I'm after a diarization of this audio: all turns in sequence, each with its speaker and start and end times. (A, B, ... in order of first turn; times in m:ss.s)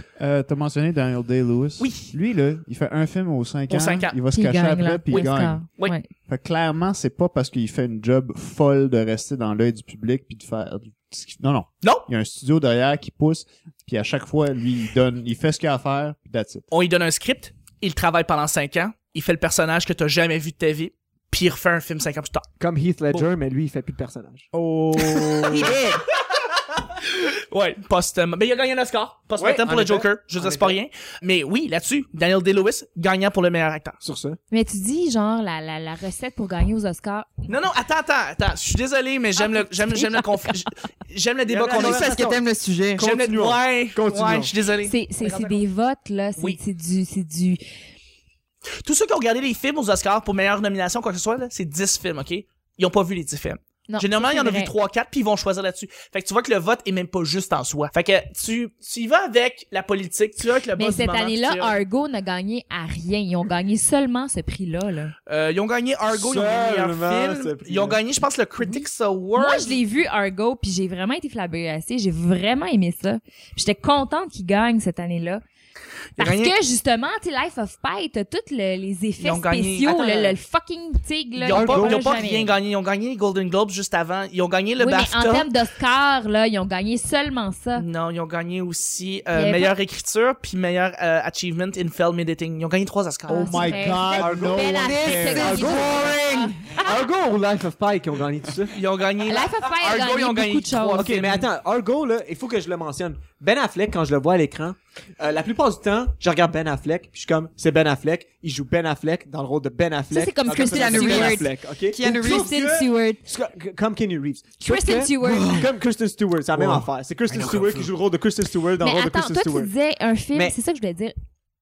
0:00.2-0:05.6 A
0:01.8-0:02.1 B
0:03.7-0:04.2 B
0:04.3-0:06.1 C
0:05.1-0:06.0 B
0:06.3-0:16.6 A
0:16.7-0:22.5 B
0:22.6-0:26.0 D
0:24.6-0:25.7 A
0:25.5-0:25.9 B
0:27.0-0:34.0 B
0:29.4-0:30.8 D
0:34.0-0:34.4 D
0:34.5-0:37.5 C
0:37.5-0:42.3 B
0:39.4-0:40.6 C
0:41.5-0:42.4 D
0:41.8-0:43.1 E
0:43.0-0:44.5 D
0:43.0-0:45.6 B
0:44.8-0:47.6 C
0:48.8-1:01.8 B
0:53.9-0:54.7 C
1:00.8-1:05.1 C
1:05.3-1:09.8 B
1:06.1-1:08.0 D
1:08.6-1:15.4 C
1:16.2-1:16.5 B
1:16.2-1:22.5 C
1:19.2-1:20.4 B
1:21.4-1:25.5 B
1:21.5-1:22.1 D
1:24.8-1:27.8 C
1:27.8-1:33.8 B
1:29.3-1:29.7 C
1:33.3-1:35.9 A
1:33.3-1:37.1 C
1:34.1-1:38.8 D
1:34.8-1:36.2 E
1:38.7-1:41.5 B
1:39.3-1:41.1 C
1:41.0-1:59.7 D
1:50.1-1:51.5 C
1:50.5-1:52.5 E
1:52.0-1:53.2 C
1:54.6-1:55.7 C
1:55.2-1:55.6 E
1:57.3-1:57.9 B
1:58.8-2:01.2 C